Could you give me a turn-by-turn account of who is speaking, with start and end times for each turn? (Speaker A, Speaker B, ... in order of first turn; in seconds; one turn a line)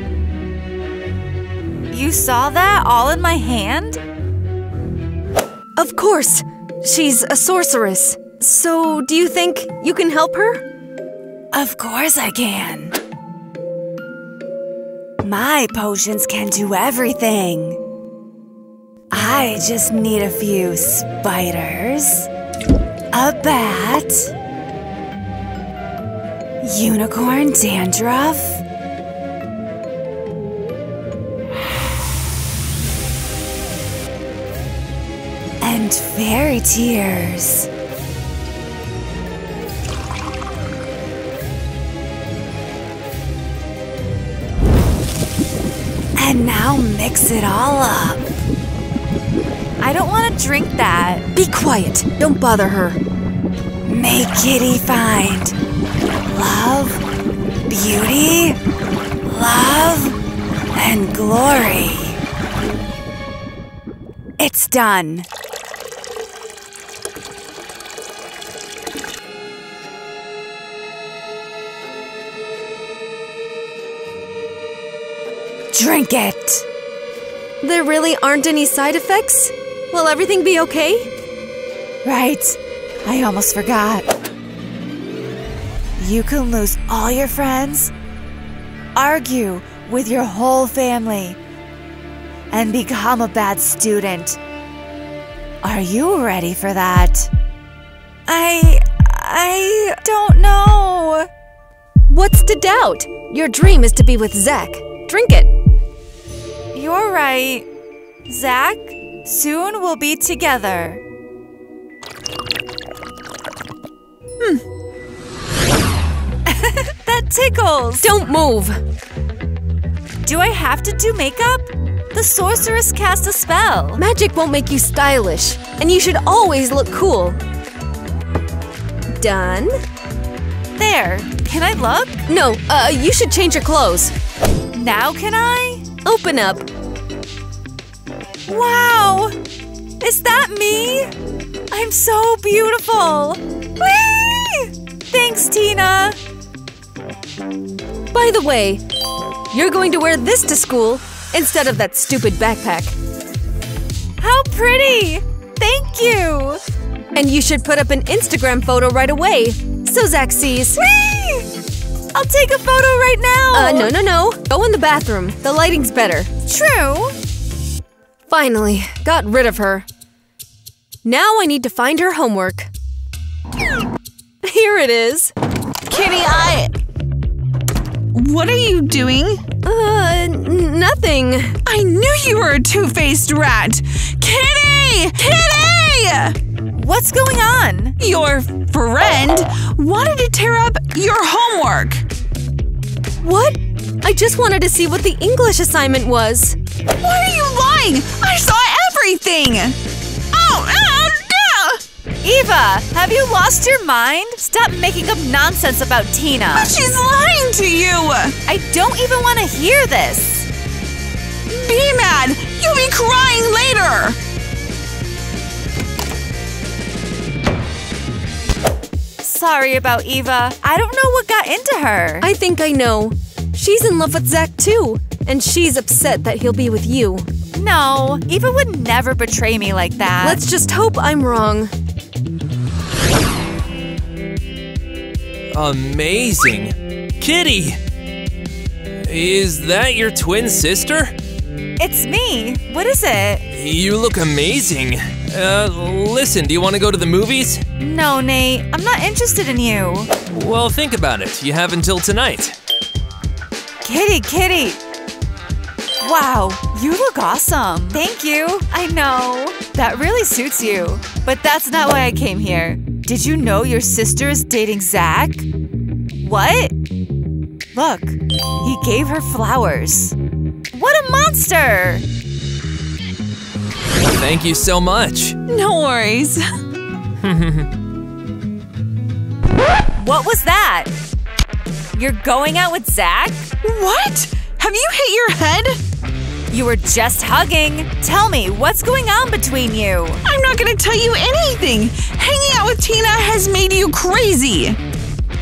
Speaker A: 1.9-4.0
Speaker B: 5.8-10.6
Speaker A: 11.5-13.0
Speaker A: 15.2-17.8
Speaker A: 19.1-22.3
Speaker A: 23.1-24.3
Speaker A: 26.6-28.6
Speaker A: 35.6-37.7
Speaker A: 46.1-48.3
Speaker A: 49.8-51.3
Speaker B: 51.3-53.0
Speaker A: 53.9-55.5
Speaker A: 56.3-57.0
Speaker A: 57.7-58.6
Speaker A: 59.3-60.2
Speaker A: 60.7-62.2
Speaker A: 64.4-65.3
Speaker A: 75.7-76.6
Speaker B: 77.6-81.1
Speaker A: 82.0-84.0
Speaker A: 86.0-87.9
Speaker A: 88.9-91.4
Speaker A: 92.5-94.4
Speaker A: 95.6-97.3
Speaker A: 98.3-101.3
Speaker B: 102.1-105.5
Speaker A: 106.7-107.7
Speaker A: 108.3-111.0
Speaker A: 116.5-118.1
Speaker B: 118.0-118.8
Speaker A: 120.2-124.0
Speaker B: 124.0-127.4
Speaker B: 129.1-129.7
Speaker A: 130.8-132.2
Speaker B: 132.3-134.1
Speaker A: 134.7-135.8
Speaker B: 136.0-136.6
Speaker A: 138.5-139.4
Speaker A: 140.0-141.1
Speaker A: 141.7-146.2
Speaker B: 148.1-148.8
Speaker B: 149.5-152.9
Speaker A: 154.2-156.6
Speaker B: 157.1-160.8
Speaker A: 160.8-161.5
Speaker A: 162.1-163.9
Speaker B: 163.5-166.3
Speaker A: 166.4-167.1
Speaker B: 168.3-169.8
Speaker B: 171.0-172.7
Speaker B: 174.4-175.3
Speaker C: 175.9-176.7
Speaker C: 178.1-179.4
Speaker B: 179.6-181.6
Speaker C: 181.6-186.3
Speaker A: 186.7-187.9
Speaker C: 188.0-192.0
Speaker B: 193.2-196.6
Speaker C: 197.0-199.8
Speaker C: 200.3-201.8
Speaker A: 202.2-206.7
Speaker C: 206.5-208.3
Speaker A: 208.4-210.5
Speaker C: 211.5-214.2
Speaker A: 219.2-222.3
Speaker B: 222.2-227.3
Speaker A: 227.6-230.4
Speaker B: 230.2-231.7
Speaker D: 235.5-237.8
Speaker D: 239.0-241.1
Speaker A: 241.8-243.4
Speaker D: 243.5-247.6
Speaker A: 247.8-250.1
Speaker D: 250.3-252.6
Speaker A: 253.8-254.8
Speaker A: 256.0-265.4
Speaker A: 266.2-266.7
Speaker A: 267.7-270.1
Speaker A: 270.7-272.0
Speaker D: 274.1-275.4
Speaker C: 275.5-276.4
Speaker D: 277.2-277.7
Speaker A: 280.0-280.9
Speaker A: 281.9-283.5
Speaker C: 283.6-285.8
Speaker A: 286.5-290.2
Speaker C: 290.2-294.8